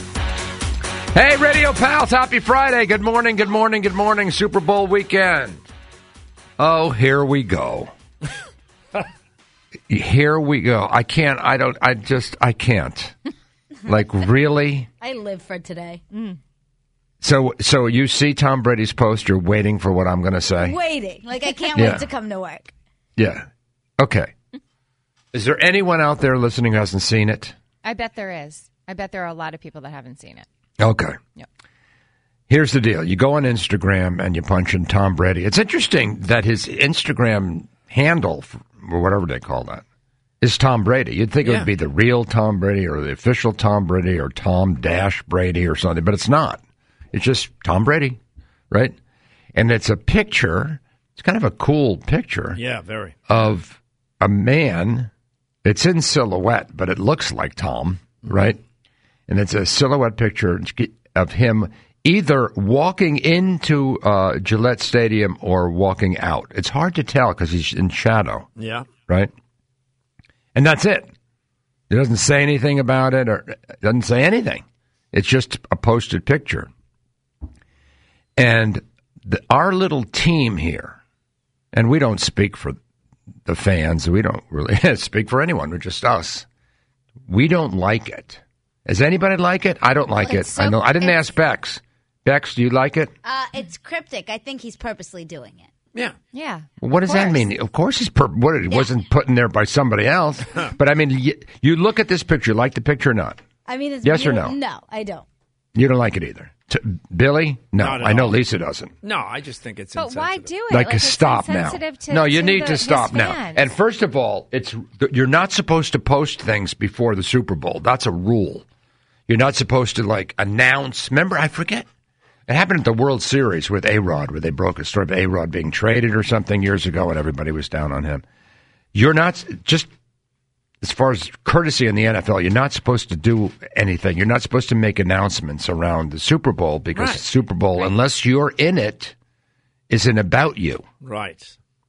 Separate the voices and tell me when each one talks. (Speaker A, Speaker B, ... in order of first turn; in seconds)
Speaker A: 1.1-5.6, 6.6-7.9, 9.9-13.2, 13.9-14.9, 17.2-20.8, 21.8-22.1, 23.2-23.5, 24.0-24.3, 25.3-27.6, 30.8-31.2, 32.5-39.8, 40.4-46.6, 47.1-48.2, 49.5-52.6, 53.3-55.1, 55.6-58.6, 59.3-68.5, 70.5-71.1, 71.9-76.7, 78.4-81.0, 81.7-82.8, 83.5-86.5, 87.3-93.1, 96.8-103.4, 104.0-104.6, 105.8-108.9, 110.7-118.7, 119.3-121.9, 122.5-128.2, 128.9-129.9, 130.8-139.2, 139.9-140.8
Speaker B: 15.0-16.0, 20.6-22.7, 93.2-95.7, 98.7-99.0, 103.7-105.3
Speaker C: 27.8-30.5, 90.2-91.3, 96.3-97.5, 110.0-113.7
Speaker D: 41.4-41.7, 52.5-53.2, 68.6-68.9, 107.8-108.4, 109.0-110.5, 136.9-137.2, 141.0-141.6